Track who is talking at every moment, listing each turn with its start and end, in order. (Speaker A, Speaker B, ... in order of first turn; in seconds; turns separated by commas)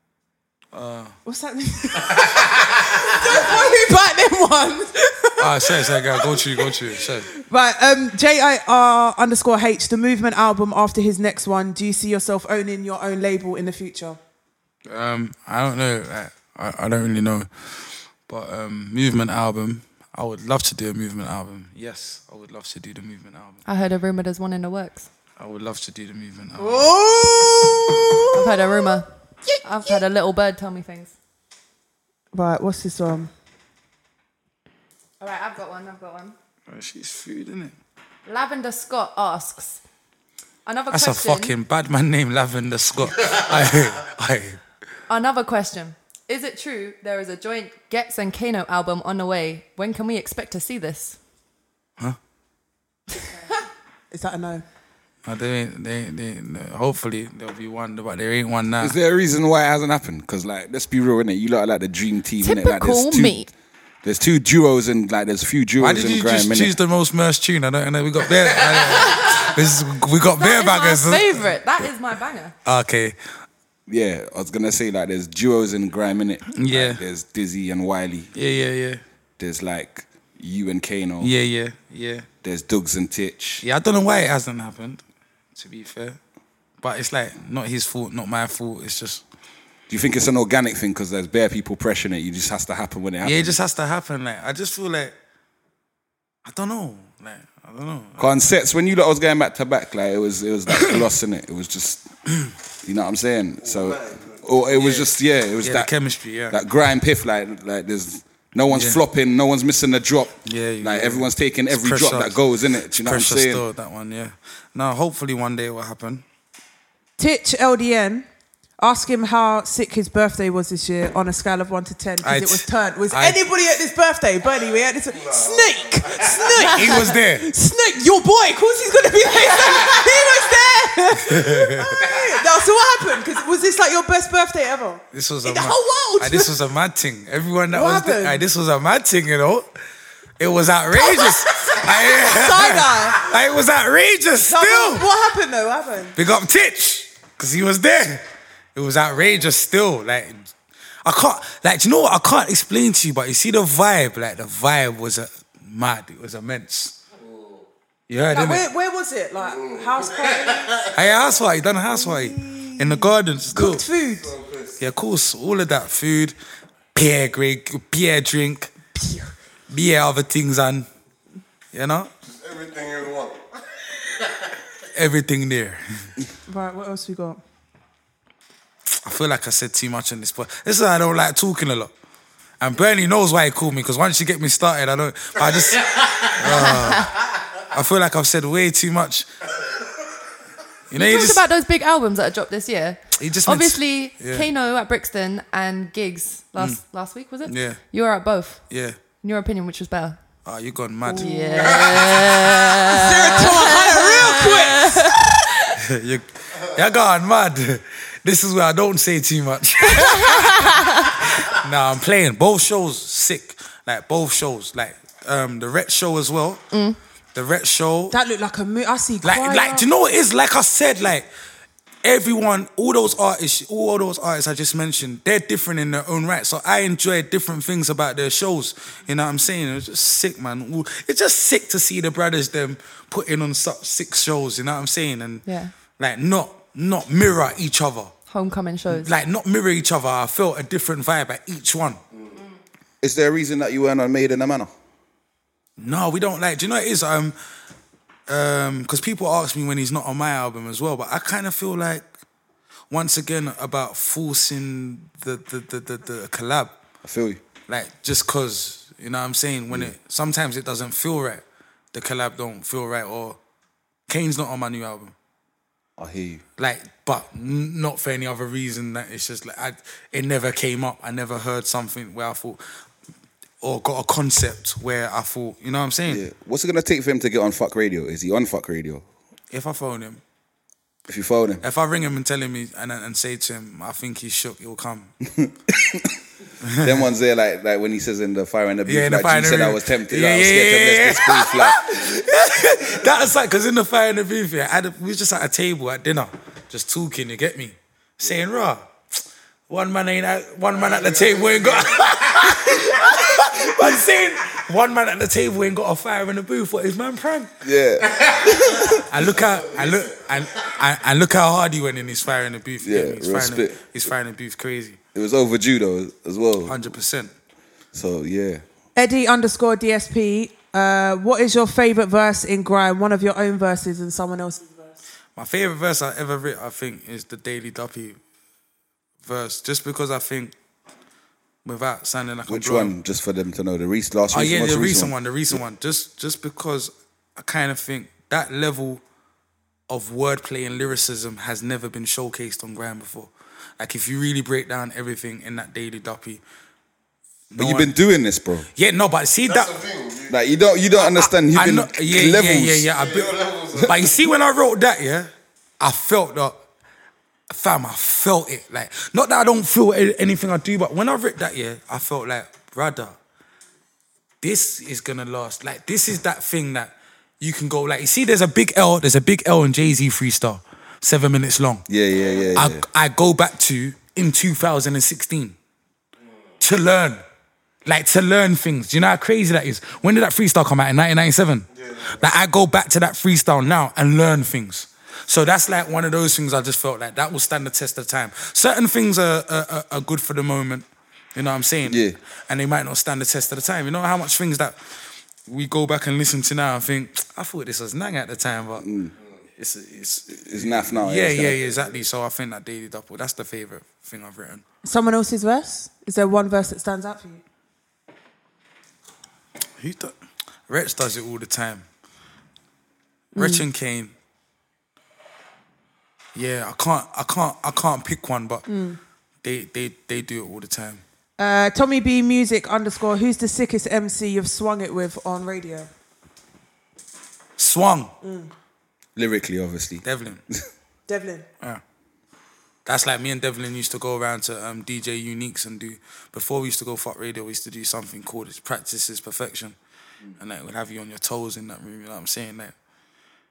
Speaker A: 0.7-1.1, Speaker B: 1.2-6.7, Speaker A: 5.4-7.3, Speaker B: 7.3-14.2, Speaker A: 14.9-17.7, Speaker A: 18.3-23.6, Speaker C: 23.6-25.1, Speaker A: 25.4-26.9, Speaker B: 26.6-28.6, Speaker C: 28.3-29.1, Speaker C: 29.6-31.1, Speaker B: 32.3-33.3, Speaker C: 35.2-36.4, Speaker A: 36.7-37.7, Speaker C: 38.2-39.8, Speaker C: 40.6-41.5, Speaker A: 40.9-44.6, Speaker C: 45.1-51.2, Speaker B: 54.1-54.6, Speaker A: 55.2-59.0, Speaker D: 58.8-63.5, Speaker C: 62.4-63.5, Speaker D: 64.0-66.8, Speaker A: 65.8-71.5, Speaker C: 70.3-72.5, Speaker A: 72.6-73.2, Speaker D: 73.9-78.3, Speaker A: 76.5-77.0, Speaker A: 78.3-79.0, Speaker D: 79.4-81.3, Speaker A: 81.2-82.3, Speaker D: 82.4-83.6, Speaker A: 83.6-85.0, Speaker A: 85.5-86.2, Speaker A: 86.8-89.2, Speaker D: 89.9-93.6, Speaker A: 93.2-95.1, Speaker A: 96.4-98.3, Speaker D: 98.2-102.1, Speaker D: 102.8-105.9, Speaker E: 103.6-104.4, Speaker A: 104.7-106.6, Speaker D: 106.5-113.6, Speaker A: 108.7-109.0, Speaker A: 110.4-112.4, Speaker A: 113.0-116.2, Speaker B: 117.2-118.2, Speaker B: 118.8-136.5, Speaker A: 122.2-123.4, Speaker E: 125.1-127.0, Speaker A: 126.5-127.5, Speaker A: 131.2-132.0, Speaker A: 135.1-139.7, Speaker B: 137.7-138.4, Speaker A: 140.4-145.1, Speaker B: 141.0-143.3, Speaker B: 144.5-146.2, Speaker A: 146.2-148.2, Speaker A: 148.7-150.5, Speaker A: 151.0-156.9, Speaker E: 157.2-157.7, Speaker A: 158.1-158.7, Speaker B: 158.3-160.9, Speaker E: 159.4-160.9, Speaker A: 160.9-163.8, Speaker B: 161.9-164.3, Speaker E: 164.0-164.8, Speaker A: 164.8-166.3, Speaker A: 166.9-168.7, Speaker A: 169.7-170.8, Speaker A: 171.7-172.1, Speaker E: 172.2-173.4, Speaker A: 174.9-175.8, Speaker B: 176.5-177.4, Speaker A: 179.0-181.9, Speaker A: 182.6-187.1, Speaker C: 186.4-187.1, Speaker A: 187.7-189.3, Speaker A: 190.9-191.4, Speaker C: 191.0-198.6, Speaker A: 193.2-194.5, Speaker A: 197.4-197.8, Speaker A: 198.7-199.0, Speaker C: 199.2-200.2, Speaker A: 200.4-201.8, Speaker B: 201.0-201.8, Speaker C: 201.2-205.7, Speaker B: 202.9-205.2, Speaker A: 205.8-216.6, Speaker C: 209.9-211.2, Speaker C: 216.7-217.0, Speaker A: 217.3-218.2, Speaker B: 218.1-219.9, Speaker A: 219.2-221.3, Speaker A: 222.0-235.4, Speaker C: 235.4-235.7, Speaker A: 236.0-238.1, Speaker C: 238.3-239.1, Speaker A: 238.9-242.0, Speaker E: 242.1-242.4, Speaker D: 243.0-244.7, Speaker A: 245.8-247.3, Speaker A: 248.3-252.0, Speaker A: 252.9-256.7, Speaker D: 257.0-257.4, Speaker A: 257.7-263.4, Speaker A: 264.1-265.1, Speaker D: 266.0-266.4, Speaker A: 266.6-272.6, Speaker A: 273.6-276.2, Speaker D: 276.1-279.0, Speaker A: 279.5-280.2, Speaker D: 281.1-281.6, Speaker A: 281.6-285.1, Speaker D: 285.4-286.1, Speaker A: 286.6-286.9, Speaker D: 286.8-291.8, Speaker A: 288.9-298.8, Speaker A: 299.7-307.5, Speaker E: 300.7-302.7, Speaker D: 307.6-309.0, Speaker E: 308.2-310.3, Speaker A: 309.1-315.0, Speaker D: 312.8-313.8, Speaker D: 315.1-316.8, Speaker A: 316.6-317.3, Speaker D: 317.9-318.6, Speaker B: 318.9-325.0, Speaker A: 325.4-328.2, Speaker A: 329.2-330.5, Speaker A: 331.6-332.9, Speaker D: 332.5-335.6, Speaker A: 334.3-339.0, Speaker A: 339.9-346.4, Speaker A: 347.5-347.9, Speaker D: 347.6-348.7, Speaker A: 348.8-349.7, Speaker E: 349.4-350.4, Speaker D: 350.3-352.9, Speaker A: 351.1-356.6, Speaker E: 352.9-354.1, Speaker A: 357.5-363.2, Speaker A: 364.4-371.9, Speaker D: 371.9-372.8, Speaker E: 372.1-372.4, Speaker A: 372.5-375.6, Speaker E: 376.2-376.5, Speaker A: 376.6-377.2, Speaker A: 377.9-394.8, Speaker E: 381.7-382.3, Speaker D: 391.8-392.1, Speaker A: 395.5-398.9, Speaker D: 398.8-399.1, Speaker A: 399.6-404.6, Speaker D: 400.4-401.7, Speaker B: 404.8-407.4, Speaker A: 409.8-410.1, Speaker A: 410.7-411.8, Speaker B: 413.3-413.6, Speaker A: 413.4-414.1, Speaker A: 416.3-418.7, Speaker B: 418.7-419.0, Speaker A: 419.4-421.0, Speaker B: 421.4-425.9, Speaker A: 427.6-428.1, Speaker B: 428.2-428.5, Speaker D: 429.1-430.0, Speaker A: 430.0-430.4, Speaker B: 431.1-431.4, Speaker A: 432.9-439.7, Speaker A: 440.4-442.7